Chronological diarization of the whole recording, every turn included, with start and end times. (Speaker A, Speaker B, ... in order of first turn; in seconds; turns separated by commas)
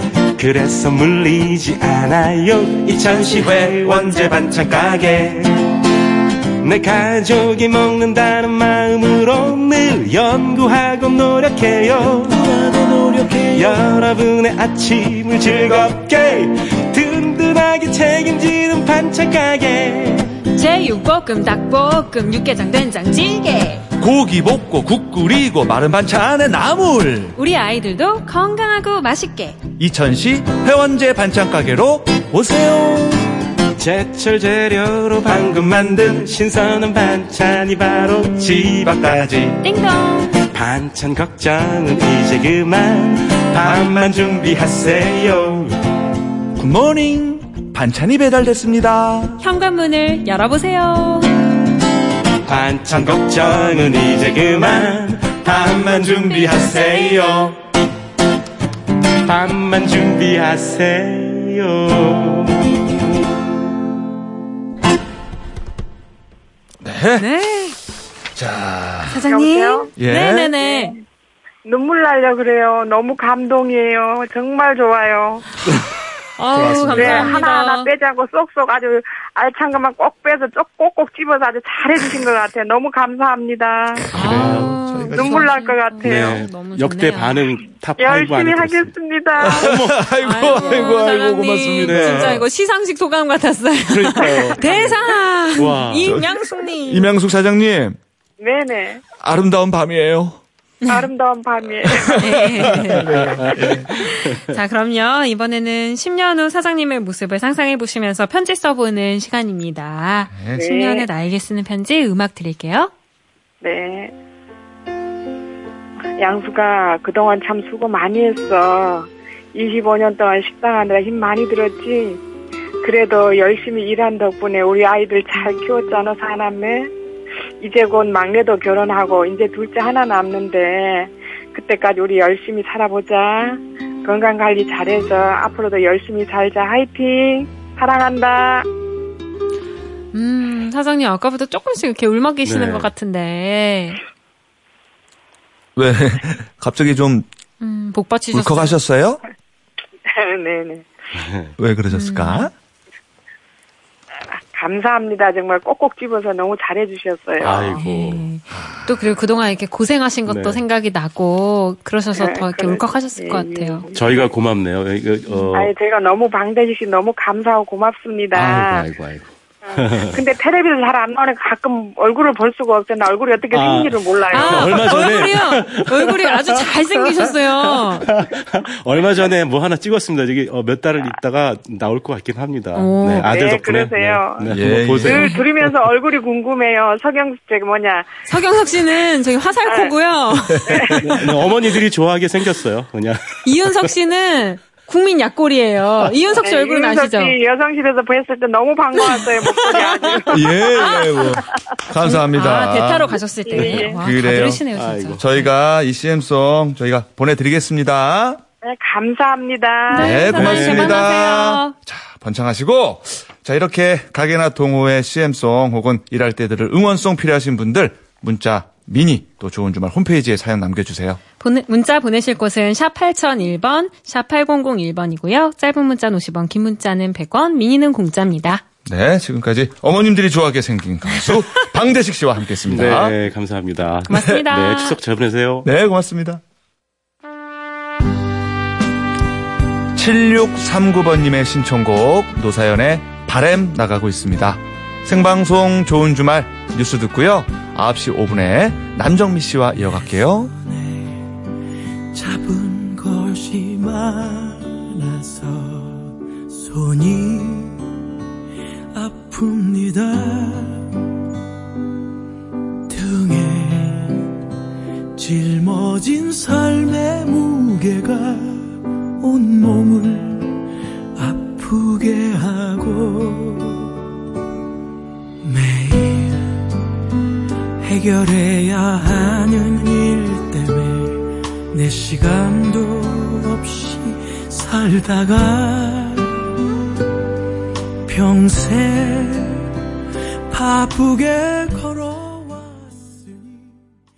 Speaker A: 0.4-5.5, Speaker B: 3.6-4.5, Speaker A: 6.6-12.5, Speaker B: 12.1-13.8, Speaker A: 13.4-20.5, Speaker C: 20.6-23.8, Speaker B: 24.0-27.4, Speaker C: 27.4-29.6, Speaker B: 29.8-33.3, Speaker A: 33.8-39.6, Speaker B: 39.2-39.5, Speaker C: 39.6-40.3, Speaker A: 40.4-45.8, Speaker B: 46.6-49.4, Speaker C: 49.4-51.4, Speaker A: 52.5-57.4, Speaker B: 53.2-53.9, Speaker B: 55.5-57.5, Speaker A: 59.2-62.8, Speaker B: 66.8-67.3, Speaker C: 67.2-67.8, Speaker B: 68.3-69.2, Speaker C: 69.1-71.0, Speaker D: 69.2-69.9, Speaker B: 70.0-70.5, Speaker D: 70.6-71.0, Speaker D: 71.7-75.5, Speaker C: 76.4-77.9, Speaker B: 76.5-77.4, Speaker D: 76.9-84.1, Speaker A: 84.1-84.8, Speaker C: 84.1-87.5, Speaker B: 84.2-85.5, Speaker D: 85.1-86.4, Speaker A: 86.0-88.9, Speaker D: 88.0-89.7, Speaker B: 89.4-92.5, Speaker A: 89.5-90.1, Speaker C: 90.2-97.1, Speaker A: 91.8-92.5, Speaker A: 93.9-94.9, Speaker A: 95.5-96.2, Speaker B: 96.0-98.0, Speaker D: 98.4-99.0, Speaker B: 99.2-100.4, Speaker D: 100.9-102.7, Speaker B: 101.9-103.9, Speaker C: 102.2-112.9, Speaker A: 103.1-104.4, Speaker B: 110.3-110.6, Speaker D: 110.6-111.1, Speaker D: 113.6-114.2, Speaker D: 116.2-122.2, Speaker D: 122.8-126.9, Speaker D: 127.6-138.7, Speaker C: 140.1-144.0, Speaker A: 142.4-142.9, Speaker B: 145.8-147.3, Speaker C: 147.6-148.8, Speaker B: 148.3-149.2, Speaker D: 150.1-150.9, Speaker A: 151.1-151.5, Speaker B: 151.6-152.5, Speaker C: 151.9-152.5, Speaker D: 154.4-157.8, Speaker A: 157.4-158.2, Speaker C: 157.8-163.9, Speaker A: 160.3-160.6, Speaker D: 162.2-164.0, Speaker A: 163.9-165.7, Speaker D: 165.5-168.9, Speaker A: 168.3-170.2, Speaker D: 169.7-175.2, Speaker A: 173.5-185.7, Speaker C: 174.3-178.1, Speaker C: 182.8-183.3, Speaker D: 183.2-188.2, Speaker B: 184.5-185.3, Speaker C: 185.1-185.4, Speaker C: 188.3-190.9, Speaker D: 189.7-189.9, Speaker B: 190.5-191.0, Speaker D: 190.7-191.2, Speaker A: 190.9-193.9, Speaker C: 193.4-197.4, Speaker D: 196.4-201.4, Speaker C: 199.0-201.1, Speaker B: 200.3-204.6, Speaker C: 202.0-205.5, Speaker D: 203.4-204.0, Speaker A: 204.8-205.4, Speaker B: 205.2-208.4, Speaker D: 208.6-210.2, Speaker C: 209.9-211.7, Speaker B: 210.0-221.2, Speaker A: 210.3-211.1, Speaker C: 221.4-228.6, Speaker B: 228.8-233.2, Speaker A: 232.7-235.7, Speaker C: 234.1-235.0, Speaker B: 235.7-236.4, Speaker B: 239.9-250.5, Speaker E: 250.4-251.2, Speaker E: 252.1-257.8, Speaker E: 258.9-260.9, Speaker E: 262.9-264.3, Speaker E: 265.2-268.7, Speaker E: 269.2-273.9, Speaker E: 275.4-276.6, Speaker E: 277.8-286.4, Speaker E: 288.1-289.7, Speaker E: 290.5-293.9